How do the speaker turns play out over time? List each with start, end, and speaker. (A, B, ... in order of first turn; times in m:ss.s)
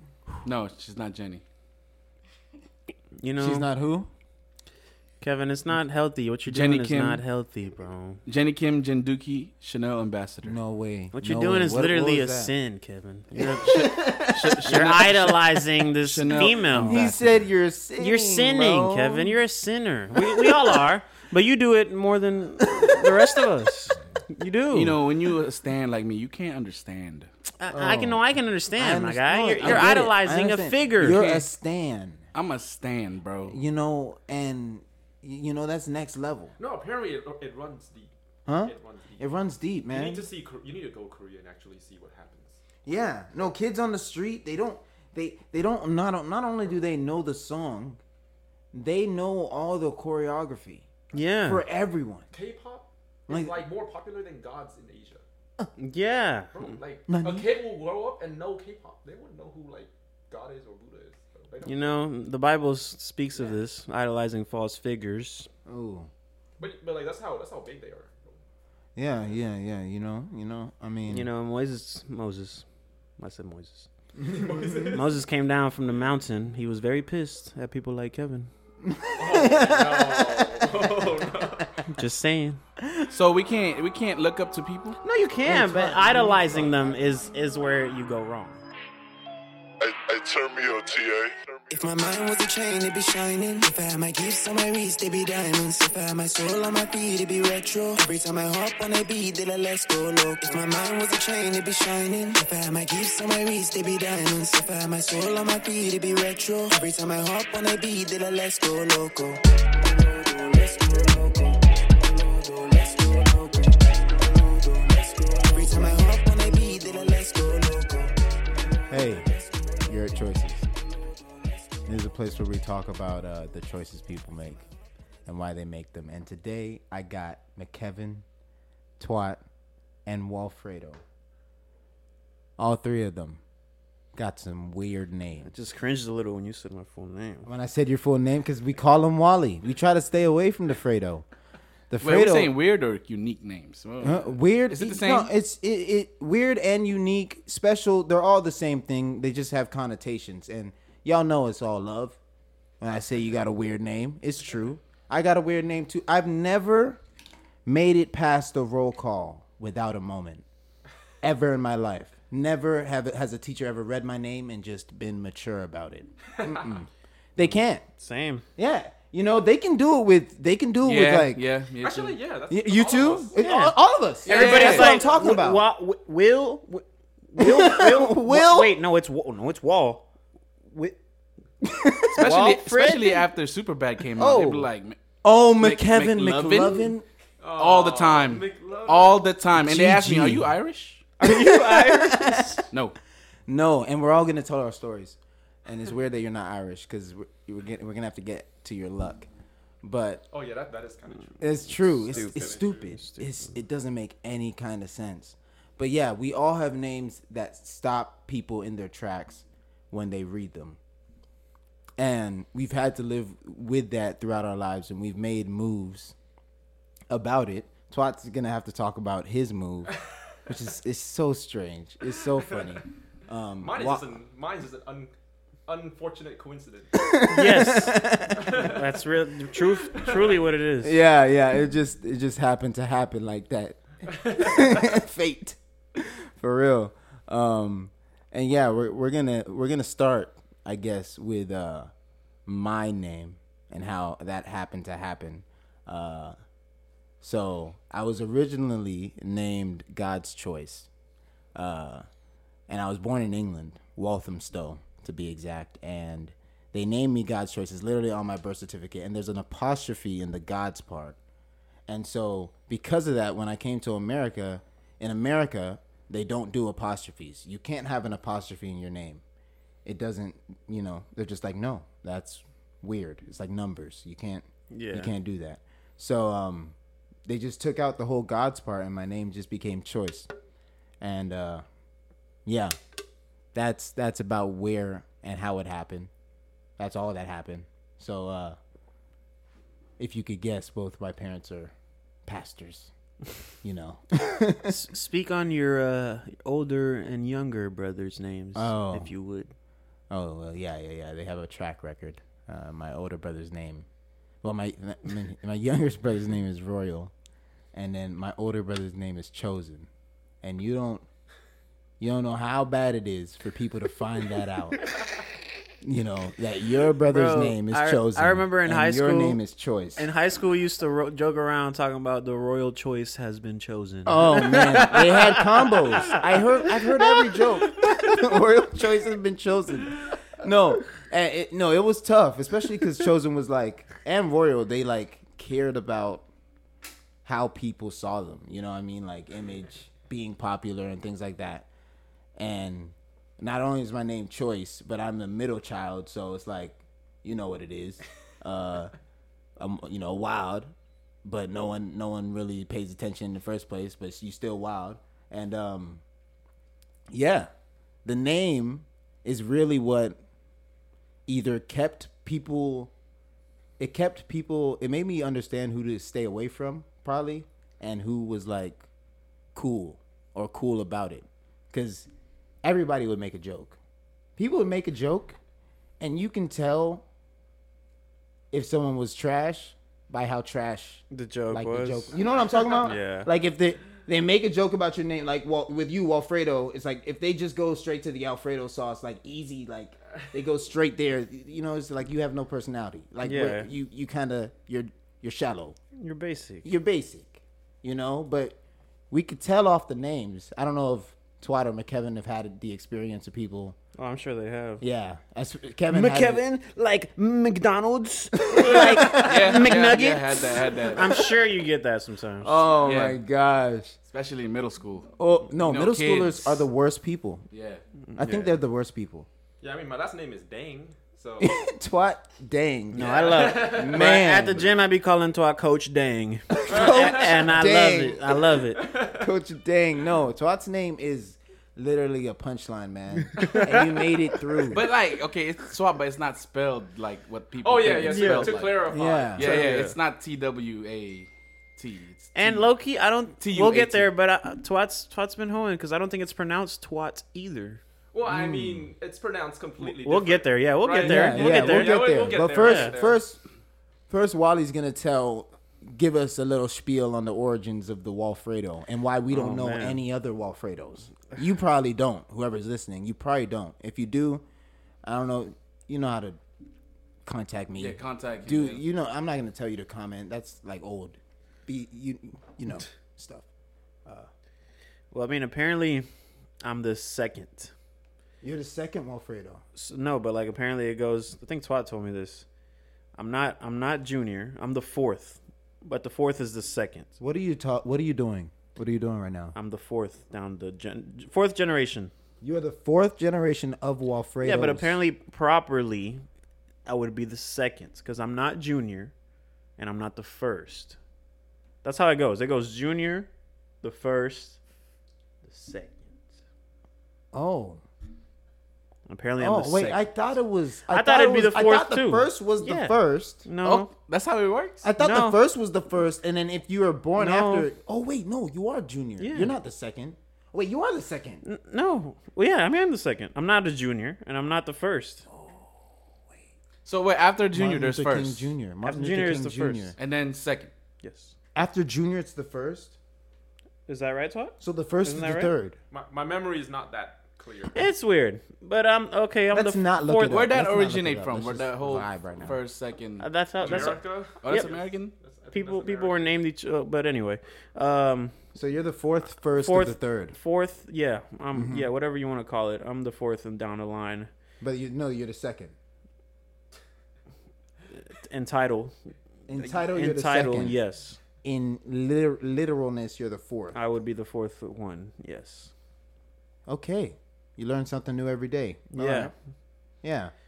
0:00.4-0:01.4 A
0:03.2-0:03.7 B
0:03.4-0:04.1 C
0:05.2-0:08.2 B
0:06.4-0:07.2 A
0:08.2-0:10.6 A
0:10.4-0:12.5 C
0:11.1-0:17.2 B
0:13.4-0:14.9 C
0:13.6-0:17.4 A
0:16.8-0:19.4 C
0:18.0-0:25.0 B
0:20.2-0:20.8 C
0:22.6-0:23.4 C
0:24.7-0:27.3 A
0:27.6-0:31.2 B
0:27.7-0:28.2 C
0:28.8-0:32.2 C
0:31.0-0:31.5 A
0:32.3-0:33.6 A
0:33.5-0:36.6 C
0:36.6-0:38.1 D
0:38.4-0:40.2 C
0:38.6-0:39.3 D
0:39.9-0:42.6 D
0:42.8-0:48.0 C
0:48.7-0:50.9 C
0:51.1-0:51.6 B
0:51.4-0:52.2 C
0:52.3-0:55.2 D
0:53.3-0:53.6 C
0:55.8-0:56.7 B
0:56.5-1:01.9 D
0:57.1-0:57.6 C
1:01.6-1:05.5 B
1:03.3-1:03.6 D
1:05.6-1:06.1 C
1:06.6-1:08.4 D
1:09.0-1:11.3 C
1:11.1-1:12.6 B
1:13.2-1:13.9 B
1:14.2-1:14.9 C
1:14.3-1:15.1 D
1:14.8-1:18.5 B
1:18.8-1:21.9 C
1:19.2-1:21.7 D
1:21.9-1:22.6 B
1:23.1-1:25.0 A
1:25.0-1:28.6 B
1:25.4-1:27.3 C
1:29.8-1:31.8 E
1:31.7-1:58.2 F
1:58.9-1:59.3 C
1:58.9-1:59.9 F
1:59.9-2:00.6 C
2:01.0-2:01.8 F
2:01.8-2:04.7 C
2:05.3-2:08.2 C
2:09.0-2:09.4 C
2:10.0-2:11.0 C
2:12.6-2:13.4 C
2:14.1-2:15.5 C
2:15.5-2:17.5 B
2:17.4-2:21.2 C
2:21.9-2:22.5 C
2:22.0-2:25.3 A
2:24.0-2:32.2 C
2:32.8-2:37.0 C
2:37.6-2:40.4 C
2:41.2-2:47.8 C
2:48.0-2:48.4 B
2:48.6-2:51.4 C
2:50.8-2:52.2 A
2:51.8-2:53.4 D
2:52.5-2:55.6 C
2:53.4-2:53.7 B
2:54.2-2:55.0 D
2:54.2-2:55.0 A
2:54.3-3:00.0 B
2:57.4-2:58.7 C
3:00.7-3:01.0 B
3:01.6-3:02.2 C
3:02.1-3:05.0 A
3:02.2-3:03.2 B
3:04.2-3:04.7 B
3:05.2-3:07.0 C
3:05.6-3:06.9 A
3:07.4-3:09.2 D
3:07.6-3:11.0 A
3:09.6-3:10.5 C
3:11.2-3:12.6 B
3:11.2-3:12.6 C
3:12.7-3:13.0 A
3:13.5-3:19.3 C
3:19.8-3:20.2 C
3:20.3-3:22.8 D
3:21.4-3:30.8 C
3:22.1-3:23.5 B
3:32.0-3:36.1 C
3:37.1-3:44.1 C
3:43.6-3:45.1 D
3:45.7-3:47.0 D
3:46.9-3:48.6 C
3:47.3-3:51.0 B
3:48.4-3:48.8 D
3:49.7-3:50.4 D
3:50.8-4:01.9 C
3:54.1-3:54.6 D
4:02.4-4:06.4 C
4:07.2-4:10.9 C
4:11.5-4:12.0 C
4:12.7-4:21.2 C
4:21.9-4:29.2 C
4:29.8-4:36.7 C
4:34.7-4:35.1 B
4:37.3-4:40.3 C
4:41.0-4:41.6 C
4:42.4-4:42.7 C
4:43.5-4:46.1 C
4:46.8-4:48.6 C
4:50.0-4:51.7 C
4:52.2-4:52.9 C
4:53.6-4:54.8 C
4:54.7-4:59.5 B
4:58.5-4:59.1 C
5:00.1-5:03.8 C
5:04.4-5:07.1 C
5:07.7-5:09.9 C
5:10.4-5:11.0 C
5:12.0-5:14.9 C
5:15.8-5:20.0 C
5:17.0-5:19.4 B
5:20.0-5:28.2 B
5:24.0-5:36.2 C
5:37.2-5:41.7 C
5:42.4-5:48.9 C
5:49.6-5:50.7 C
5:51.2-5:56.0 C
5:57.1-5:57.5 C
5:58.0-6:00.2 C
6:01.3-6:02.9 C
6:03.8-6:08.8 C
6:09.5-6:12.1 C
6:12.6-6:13.8 C
6:14.4-6:15.4 C
6:16.0-6:17.0 C
6:18.5-6:35.8 C
6:21.1-6:22.2 B
6:22.8-6:23.3 B
6:33.2-6:33.7 B
6:36.0-6:36.7 B
6:36.6-6:38.6 C
6:39.1-6:43.8 C
6:44.0-6:44.8 B
6:44.8-6:46.4 C
6:45.9-6:52.6 B
6:48.5-6:49.9 C
6:49.0-6:51.1 A
6:51.0-6:51.3 C
6:52.4-6:53.9 C
6:52.8-6:53.2 A
6:54.0-6:56.7 A
6:55.2-6:57.4 C
6:57.5-6:57.8 A
6:58.1-6:58.5 B
6:58.2-6:59.3 C
6:59.6-7:01.6 D
7:01.4-7:04.7 C
7:02.9-7:08.9 B
7:03.0-7:04.2 D
7:06.6-7:08.4 C
7:06.7-7:07.4 D
7:08.7-7:09.3 D
7:09.0-7:14.8 C
7:13.4-7:13.9 B
7:14.7-7:22.7 A
7:17.6-7:19.6 D
7:18.0-7:18.6 B
7:18.9-7:19.5 C
7:19.4-7:20.0 B
7:22.3-7:27.8 B
7:23.4-7:24.1 A
7:28.1-7:33.2 D
7:28.2-7:28.9 C
7:29.8-7:33.0 B
7:31.0-7:33.4 C
7:34.1-7:44.4 C
7:39.3-7:40.0 B
7:45.0-7:46.4 C
7:47.2-7:53.5 C
7:47.8-7:48.8 A
7:55.1-7:56.1 B
7:56.6-7:57.7 B
7:58.4-7:59.6 C
7:59.7-8:02.4 B
8:03.2-8:07.1 B
8:07.2-8:09.5 C
8:09.5-8:12.1 B
8:12.4-8:15.0 C
8:14.4-8:16.2 B
8:16.8-8:19.1 B
8:19.8-8:21.0 B
8:21.8-8:23.3 B
8:23.8-8:24.6 B
8:25.4-8:26.1 B
8:27.3-8:27.8 C
8:29.1-8:30.0 B
8:29.4-8:33.4 C
8:30.9-8:33.9 B
8:33.6-8:34.8 A
8:34.8-8:41.4 C
8:35.0-8:35.4 B
8:37.2-8:37.7 B
8:39.2-8:39.5 B
8:41.4-8:45.2 B
8:45.3-8:45.7 C
8:46.8-8:48.5 A
8:47.5-8:49.9 C
8:48.8-8:49.9 B
8:50.0-8:50.7 A
8:51.0-8:51.3 B
8:51.5-8:52.9 C
8:53.9-8:55.5 B
8:54.6-8:55.8 C
8:55.9-8:57.9 D
8:57.7-9:00.4 B
8:59.5-9:02.6 C
9:00.2-9:05.1 A
9:03.2-9:04.7 B
9:03.6-9:06.3 D
9:05.5-9:08.4 B
9:08.5-9:10.4 C
9:09.6-9:14.3 B
9:11.5-9:11.9 C
9:14.6-9:15.7 C
9:18.1-9:19.0 B
9:19.5-9:20.8 C
9:19.6-9:21.2 B
9:21.4-9:23.8 C
9:23.7-9:25.7 B
9:26.7-9:29.3 C
9:28.9-9:29.3 B
9:30.0-9:30.3 C